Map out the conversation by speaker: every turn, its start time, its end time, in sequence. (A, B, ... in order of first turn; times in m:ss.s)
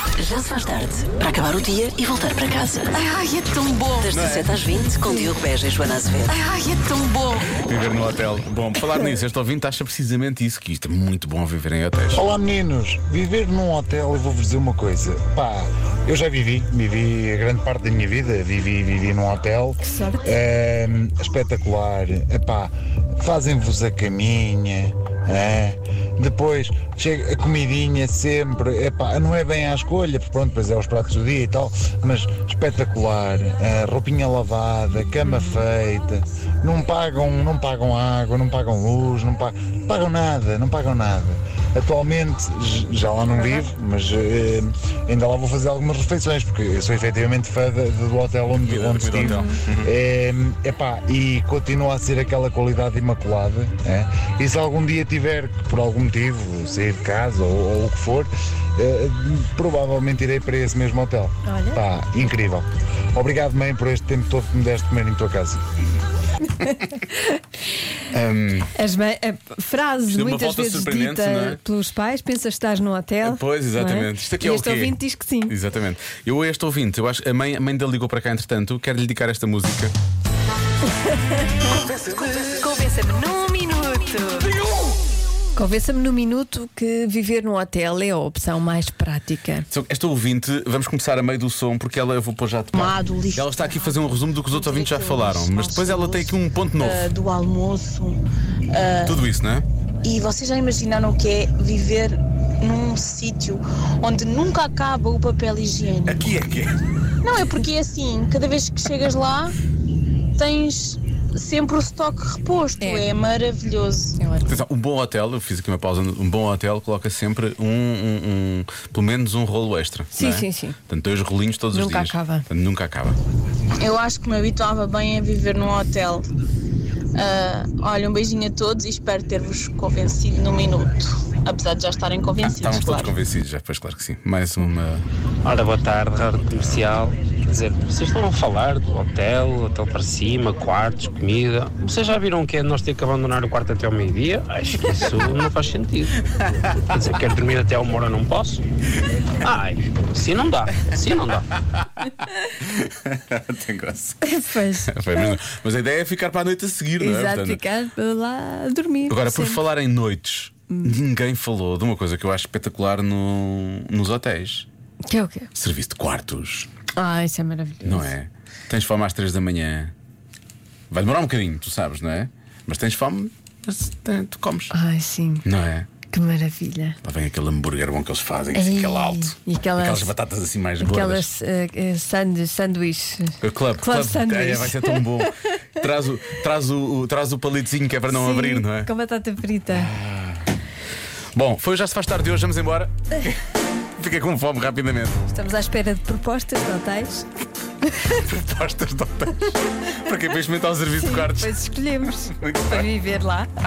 0:00.2-0:03.0 A
0:04.0-0:06.4 A
0:04.1-0:04.6 B
0:07.5-0:12.2 B
0:12.2-1:05.6 C
0:19.8-0:20.2 D
0:48.6-0:49.9 B
0:49.2-0:49.5 D
1:01.5-1:01.8 D
1:06.6-1:07.4 D
1:08.1-1:08.7 B
1:08.8-1:15.6 D
1:10.1-1:11.6 B
1:13.2-1:19.9 B
1:21.3-1:24.6 D
1:25.6-1:29.7 D
1:29.7-1:37.1 B
1:32.7-1:38.2 E
1:38.7-1:39.2 E
1:39.0-1:39.7 B
1:40.0-1:46.2 E
1:46.1-1:46.8 B
1:47.2-1:49.6 E
1:50.4-1:54.2 E
1:52.8-1:53.1 D
1:54.2-1:54.7 D
1:54.5-2:03.2 B
2:00.2-2:00.8 D
2:01.7-2:02.5 D
2:03.8-2:06.2 E
2:07.2-2:13.1 E
2:12.4-2:15.0 B
2:15.4-2:26.2 F
2:26.9-2:28.6 F
2:29.4-2:31.4 F
2:32.6-2:34.2 B
2:34.2-2:35.3 D
2:34.9-2:37.6 B
2:37.0-2:39.6 D
2:39.1-2:44.7 B
2:40.7-2:41.0 D
2:45.1-2:45.5 D
2:45.6-2:46.7 B
2:47.0-2:48.1 D
2:47.8-2:49.9 B
2:50.9-2:54.7 B
2:54.7-2:55.4 D
2:55.4-2:55.9 B
2:56.1-2:57.0 D
2:57.0-3:01.3 B
2:58.5-3:00.1 D
3:00.8-3:05.3 D
3:03.4-3:08.9 B
3:08.1-3:09.9 D
3:09.7-3:10.5 B
3:11.4-3:13.4 B
3:14.0-3:15.2 B
3:15.3-3:17.3 D
3:18.2-3:22.9 B
3:21.0-3:23.5 D